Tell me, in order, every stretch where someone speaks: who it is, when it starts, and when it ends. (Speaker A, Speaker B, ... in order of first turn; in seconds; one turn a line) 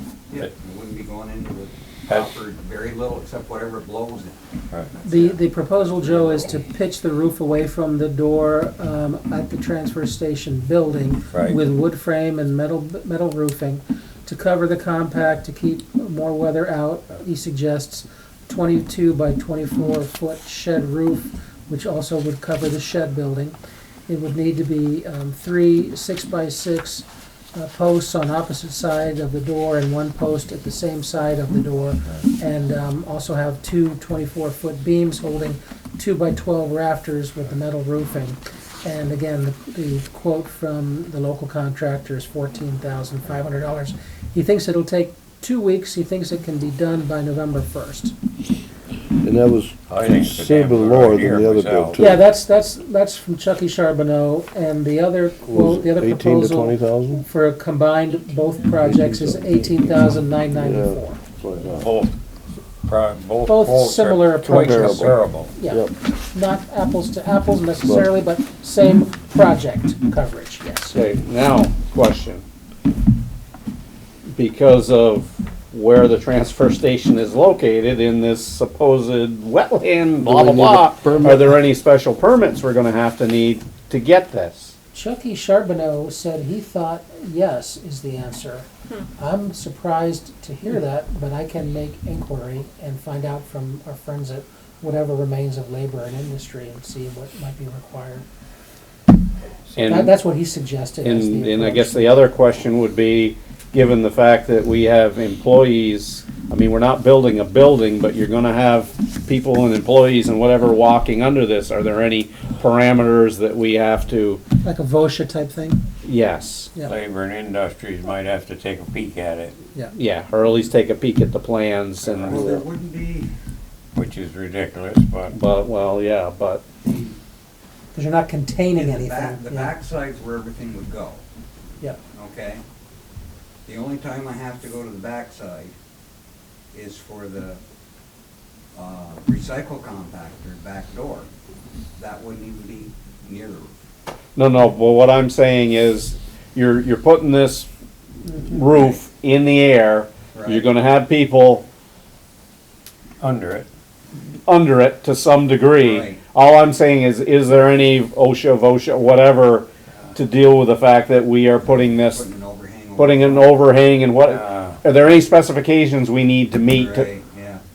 Speaker A: 0.3-6.6
Speaker B: 2.1-2.4
Speaker C: 5.0-23.6
Speaker B: 11.3-11.6
Speaker C: 24.1-48.1
Speaker D: 49.2-52.2
Speaker B: 49.9-52.0
Speaker C: 52.0-61.2
Speaker D: 55.4-57.2
Speaker D: 58.8-59.9
Speaker D: 60.5-61.9
Speaker B: 61.6-62.2
Speaker B: 62.9-65.5
Speaker C: 63.5-71.0
Speaker D: 64.5-65.2
Speaker D: 67.8-68.1
Speaker E: 70.9-72.4
Speaker E: 74.3-84.7
Speaker D: 80.2-81.6
Speaker C: 84.9-98.2
Speaker E: 99.8-100.1
Speaker C: 99.8-102.2
Speaker E: 101.0-114.4
Speaker C: 114.6-115.8
Speaker E: 116.0-116.7
Speaker B: 116.8-119.6
Speaker E: 120.0-122.6
Speaker A: 122.0-123.3
Speaker C: 122.3-122.6
Speaker B: 124.0-125.3
Speaker E: 125.3-126.6
Speaker A: 126.8-127.2
Speaker C: 127.9-129.7
Speaker A: 128.7-131.2
Speaker A: 132.1-132.6
Speaker A: 133.7-135.8
Speaker A: 136.7-137.6
Speaker A: 138.7-141.3
Speaker A: 142.0-143.7
Speaker E: 144.4-147.7
Speaker C: 148.3-149.0
Speaker E: 148.3-151.7
Speaker A: 150.3-150.7
Speaker B: 153.2-153.7
Speaker E: 154.5-162.3
Speaker A: 155.8-156.2
Speaker A: 161.7-163.6
Speaker E: 163.0-167.1
Speaker B: 164.2-164.8
Speaker A: 166.7-167.6